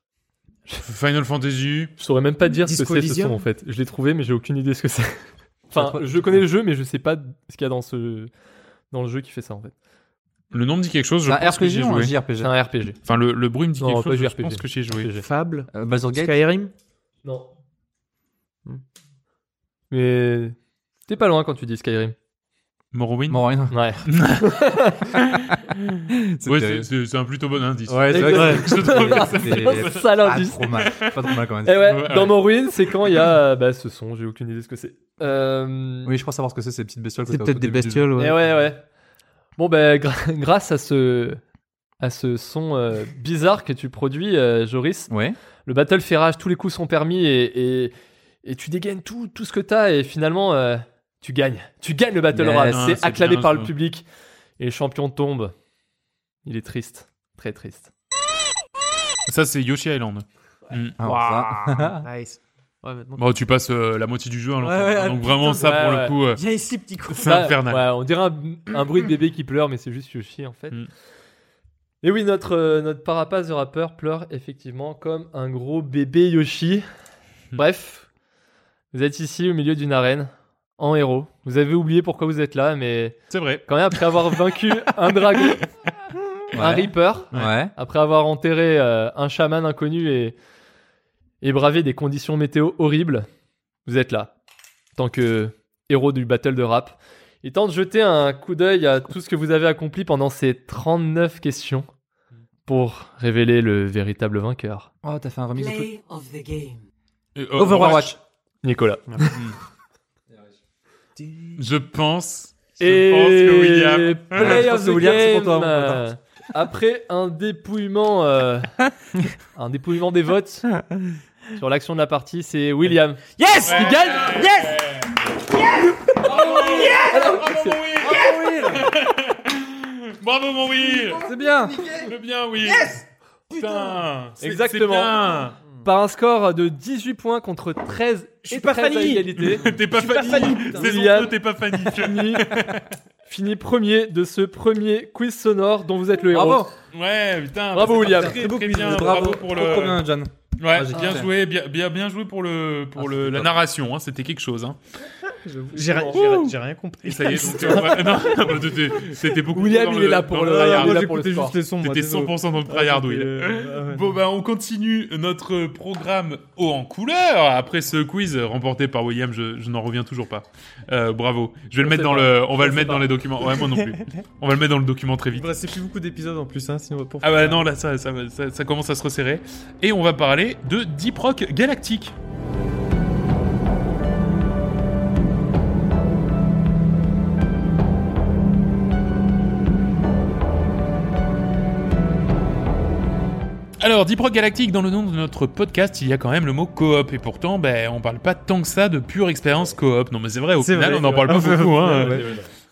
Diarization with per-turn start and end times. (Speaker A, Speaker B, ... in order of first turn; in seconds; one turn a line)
Speaker A: 0.8-1.9
Speaker B: 2.0-8.3
Speaker C: 2.6-3.4
Speaker D: 5.7-6.4
Speaker B: 8.9-9.7
Speaker A: 10.5-12.1
Speaker D: 11.2-12.5
Speaker B: 12.4-13.0
Speaker A: 13.0-15.1
Speaker B: 13.8-15.2
Speaker C: 15.2-16.7
Speaker D: 15.7-16.4
Speaker B: 17.2-17.5
Speaker B: 19.9-20.6
Speaker B: 21.1-22.1
Speaker A: 22.9-23.4
Speaker D: 23.3-23.8
Speaker B: 23.7-25.2
Speaker A: 24.0-24.5
Speaker A: 25.1-30.1
Speaker D: 26.1-26.9
Speaker D: 27.9-32.0
Speaker B: 28.1-30.8
Speaker C: 28.3-28.8
Speaker A: 30.7-31.2
Speaker B: 31.6-36.1
Speaker A: 31.8-32.4
Speaker D: 36.0-38.1
Speaker C: 37.3-38.4
Speaker B: 38.1-38.8
Speaker B: 39.6-41.4
Speaker B: 42.0-45.1
Speaker D: 45.1-45.4
Speaker B: 45.6-54.0
Speaker D: 52.3-53.0
Speaker A: 52.6-53.7
Speaker B: 54.6-55.5
Speaker B: 56.4-57.9
Speaker A: 59.3-61.0
Speaker D: 61.0-62.0
Speaker C: 61.0-63.2
Speaker A: 63.2-66.4
Speaker C: 64.6-65.6
Speaker B: 65.5-66.2
Speaker C: 66.3-67.5
Speaker A: 67.1-67.9
Speaker B: 67.2-70.8
Speaker B: 72.0-76.8
Speaker B: 77.5-78.1
Speaker B: 78.9-85.7
Speaker A: 83.3-83.7
Speaker D: 86.5-87.7
Speaker B: 86.5-90.3
Speaker B: 91.4-93.3
Speaker B: 93.8-94.3
Speaker B: 95.0-101.9
Speaker B: 102.7-104.9
Speaker D: 105.0-106.7
Speaker A: 107.3-108.2
Speaker D: 107.5-108.2
Speaker B: 108.6-109.4
Speaker C: 111.2-111.6
Speaker A: 111.5-114.6
Speaker B: 112.8-118.7
Speaker D: 114.3-116.0
Speaker B: 119.5-120.8
Speaker B: 121.5-123.2
Speaker C: 123.4-124.7
Speaker D: 123.5-124.4
Speaker A: 123.6-125.2
Speaker A: 126.2-131.2
Speaker B: 126.8-127.8
Speaker D: 128.0-128.8
Speaker D: 131.2-132.0
Speaker A: 131.9-135.6
Speaker C: 132.7-132.9
Speaker B: 134.4-135.2
Speaker B: 135.8-142.6
Speaker C: 138.5-141.1
Speaker A: 139.4-142.9
Speaker B: 143.2-146.7
Speaker D: 146.3-146.7
Speaker A: 146.9-150.0
Speaker B: 147.7-148.4
Speaker C: 148.1-149.3
Speaker D: 148.7-151.3
Speaker A: 150.6-154.8
Speaker B: 150.9-151.3
Speaker D: 153.0-153.5
Speaker C: 155.3-158.6
Speaker B: 155.7-156.4
Speaker A: 156.1-156.5
Speaker A: 157.0-161.1
Speaker B: 157.5-158.0
Speaker B: 159.4-161.6
Speaker C: 160.4-164.2
Speaker A: 161.8-175.5
Speaker B: 171.8-173.0
Speaker C: 173.5-173.9
Speaker C: 175.3-177.6
Speaker A: 177.2-182.1
Speaker A: 193.8-202.2
Speaker C: 200.6-202.3
Speaker B: 201.3-202.5